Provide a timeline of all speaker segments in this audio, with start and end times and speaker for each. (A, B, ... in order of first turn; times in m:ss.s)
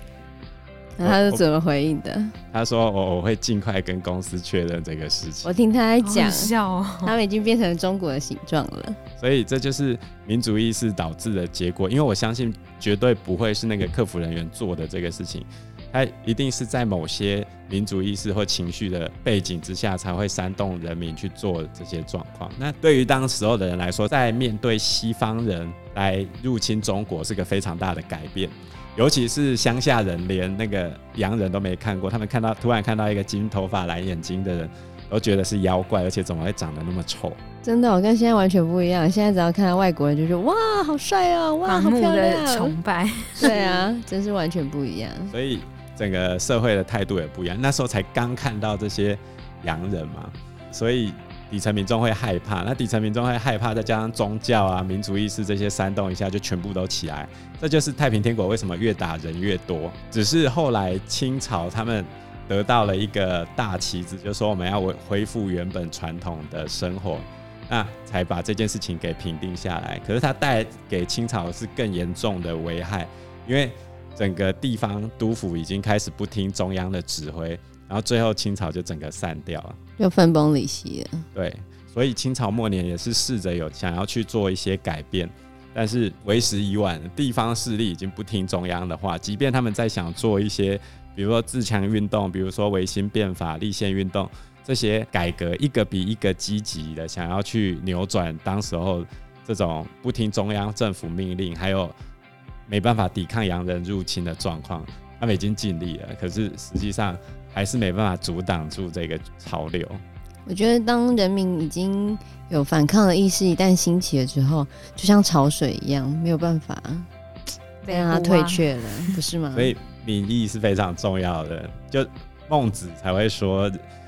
0:01.0-0:02.3 A
0:01.0-0:01.4 B
0:02.5-0:05.5 B
0:05.4-0:06.5 A
0:06.0-0:07.2 C
0:07.0-0:09.0 A
0:09.2-0:37.4 B
0:37.6-0:42.8 A
0:41.6-0:43.6 C
0:43.4-0:45.3 A
0:45.3-1:19.8 B
1:20.0-1:21.2 A
1:21.3-1:41.9 B
1:42.7-1:50.0 B
1:50.4-1:57.1 A
1:57.8-1:59.2 C
1:57.9-1:59.7 A
1:59.5-2:03.8 B